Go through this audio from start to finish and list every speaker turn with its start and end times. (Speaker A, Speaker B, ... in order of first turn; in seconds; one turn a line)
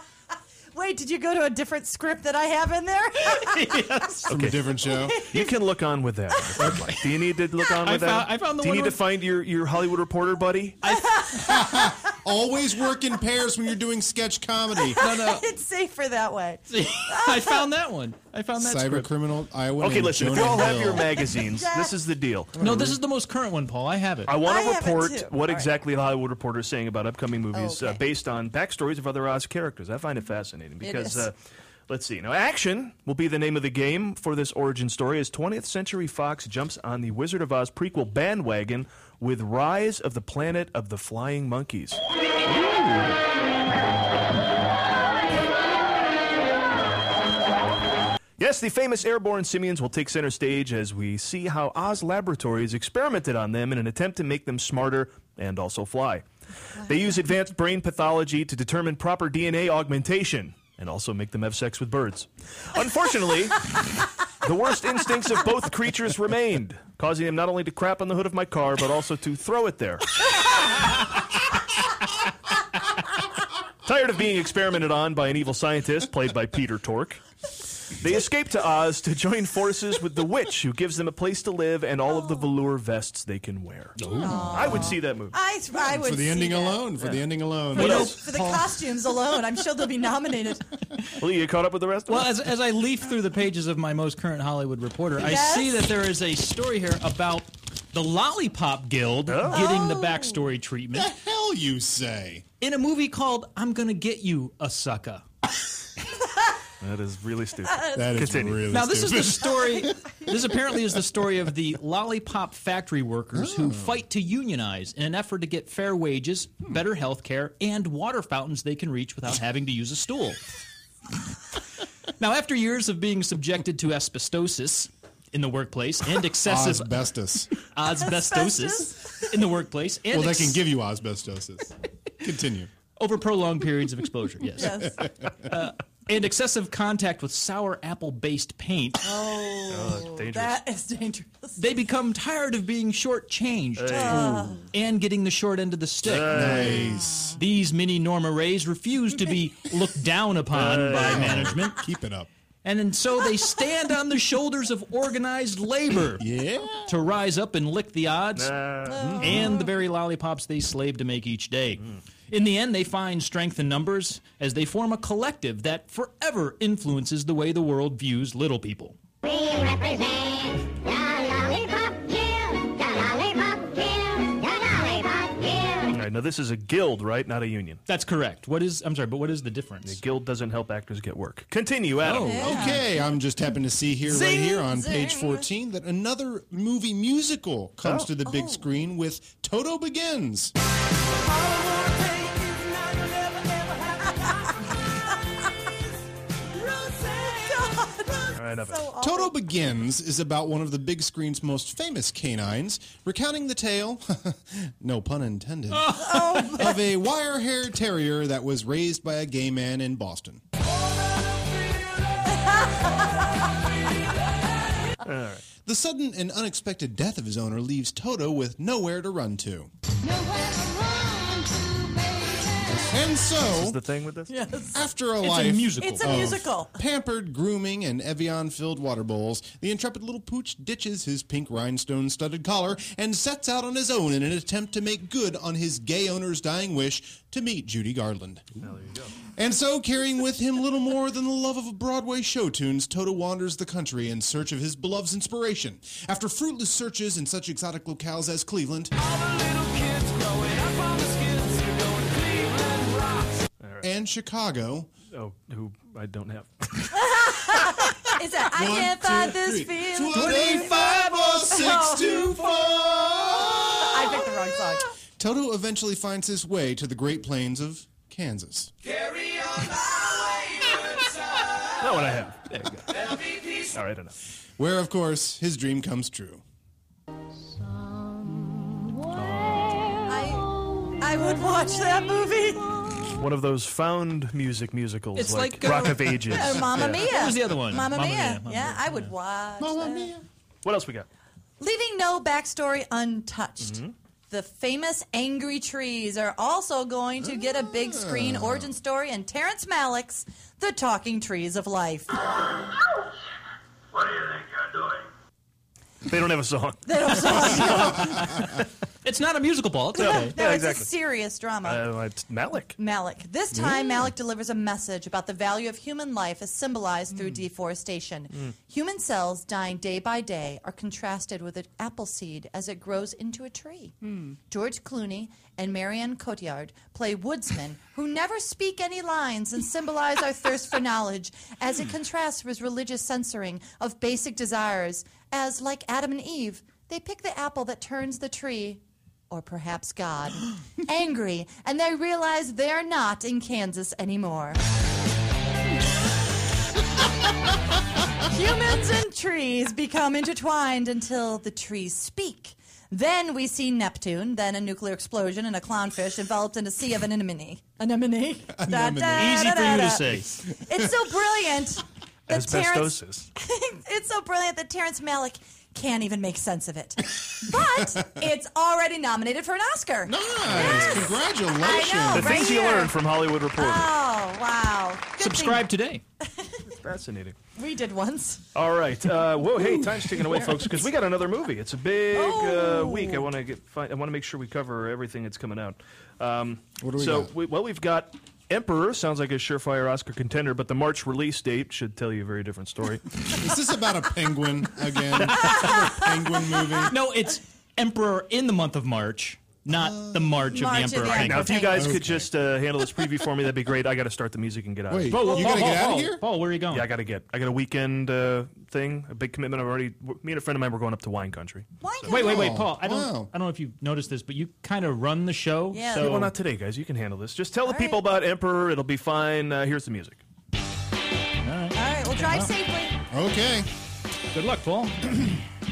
Speaker A: 0.7-3.9
Speaker B: 3.4-4.3
Speaker C: 4.3-4.6
Speaker D: 4.3-5.2
Speaker A: 4.8-5.5
Speaker C: 5.3-10.8
Speaker A: 6.4-6.8
Speaker B: 6.6-7.1
Speaker B: 7.8-9.0
Speaker B: 10.8-11.2
Speaker A: 10.8-12.0
Speaker D: 11.4-15.0
Speaker A: 14.8-17.7
Speaker B: 15.0-15.4
Speaker B: 16.7-19.1
Speaker D: 18.6-21.1
Speaker C: 19.8-22.5
Speaker A: 20.7-21.9
Speaker D: 22.5-23.0
Speaker B: 22.6-24.3
Speaker C: 24.3-31.3
Speaker A: 24.4-25.7
Speaker A: 27.5-28.0
Speaker A: 30.8-31.3
Speaker C: 31.9-42.0
Speaker C: 42.5-43.1
Speaker C: 48.4-56.2
Speaker C: 56.8-70.6
Speaker C: 73.8-77.2
Speaker C: 78.0-85.3
Speaker A: 82.1-82.4
Speaker B: 84.0-84.9
Speaker A: 84.2-86.9
Speaker D: 85.8-88.1
Speaker C: 87.7-88.2
Speaker A: 87.7-90.7
Speaker B: 87.8-88.7
Speaker C: 91.2-92.4
Speaker B: 92.1-101.1
Speaker A: 95.2-95.9
Speaker C: 99.3-99.7
Speaker A: 99.5-100.4
Speaker D: 100.9-102.4
Speaker B: 102.6-105.2
Speaker C: 106.8-108.7
Speaker A: 107.7-108.2
Speaker D: 107.9-110.5
Speaker B: 108.7-120.4
Speaker D: 113.3-114.0
Speaker B: 122.2-126.9
Speaker D: 126.4-127.5
Speaker B: 127.7-130.6
Speaker A: 127.9-129.3
Speaker D: 130.1-132.7
Speaker B: 133.0-139.1
Speaker A: 134.6-135.0
Speaker A: 139.0-141.6
Speaker C: 139.7-140.6
Speaker B: 141.6-146.8
Speaker C: 143.8-144.7
Speaker A: 143.9-144.7
Speaker C: 146.0-146.9
Speaker D: 146.3-147.4
Speaker B: 147.3-151.8
Speaker C: 150.5-151.5
Speaker D: 151.0-152.3
Speaker B: 152.6-156.2
Speaker D: 156.2-156.9
Speaker B: 156.8-158.5
Speaker C: 158.3-159.2
Speaker A: 158.8-159.7
Speaker D: 159.0-159.5
Speaker B: 159.2-169.0
Speaker E: 169.2-176.0
Speaker C: 175.9-177.8
Speaker B: 177.9-180.0
Speaker C: 179.8-182.6
Speaker B: 182.0-182.7
Speaker A: 182.2-182.8
Speaker D: 182.3-190.5
Speaker B: 184.1-184.6
Speaker A: 184.5-185.4
Speaker C: 187.8-188.1
Speaker A: 188.2-188.7
Speaker A: 191.2-195.1
Speaker A: 196.5-199.3
Speaker C: 198.3-198.8
Speaker D: 199.0-210.4
Speaker B: 205.7-206.6
Speaker A: 205.9-206.8
Speaker A: 212.3-213.3
Speaker C: 215.0-215.4
Speaker D: 215.6-219.7
Speaker A: 220.1-221.3
Speaker D: 222.8-223.8
Speaker C: 223.5-224.3
Speaker A: 224.3-224.9
Speaker D: 224.7-238.5
Speaker B: 225.2-226.2
Speaker A: 225.7-226.7
Speaker C: 238.6-239.1
Speaker D: 239.3-248.9
Speaker D: 253.8-254.9
Speaker C: 255.1-256.9
Speaker A: 256.9-262.5
Speaker D: 258.5-264.3
Speaker B: 260.1-260.9
Speaker A: 263.5-264.9
Speaker D: 265.2-268.7
Speaker C: 271.8-272.4
Speaker B: 272.5-272.9
Speaker C: 273.6-274.1
Speaker D: 274.6-276.4
Speaker C: 279.2-279.8
Speaker A: 280.1-282.8
Speaker C: 283.2-286.8
Speaker B: 285.1-289.1
Speaker A: 286.3-290.1
Speaker D: 286.7-287.3
Speaker D: 289.6-290.2
Speaker C: 290.6-291.1
Speaker A: 291.6-302.1
Speaker C: 293.6-293.9
Speaker D: 297.2-298.7
Speaker C: 306.0-307.8
Speaker A: 306.9-308.5
Speaker B: 309.0-310.3
Speaker A: 309.9-311.9
Speaker C: 310.0-310.9
Speaker C: 311.6-312.8
Speaker A: 312.8-323.9
Speaker D: 313.5-314.1
Speaker A: 324.5-344.6
Speaker A: 348.3-372.9
Speaker D: 358.5-360.9
Speaker B: 359.1-360.3
Speaker C: 362.3-363.3
Speaker D: 370.0-372.5
Speaker C: 370.4-371.1
Speaker C: 372.1-373.9
Speaker A: 373.6-375.7
Speaker B: 375.2-376.0
Speaker A: 376.2-376.6
Speaker C: 376.7-377.4
Speaker A: 377.6-378.4
Speaker C: 378.5-393.3
Speaker D: 379.6-380.7
Speaker A: 382.1-383.2
Speaker D: 386.8-387.3
Speaker D: 393.3-396.9
Speaker B: 396.9-401.6
Speaker D: 399.7-400.4
Speaker A: 400.4-401.9
Speaker C: 401.1-405.7
Speaker D: 401.7-402.3
Speaker D: 404.9-406.2
Speaker B: 405.1-406.9
Speaker C: 406.7-411.6
Speaker A: 411.8-412.6
Speaker D: 412.0-413.3
Speaker B: 412.1-416.3
Speaker A: 415.7-416.2
Speaker C: 415.9-420.2
Speaker A: 417.6-418.0
Speaker B: 421.4-422.5
Speaker A: 421.7-423.0
Speaker D: 423.1-423.7
Speaker B: 424.3-425.4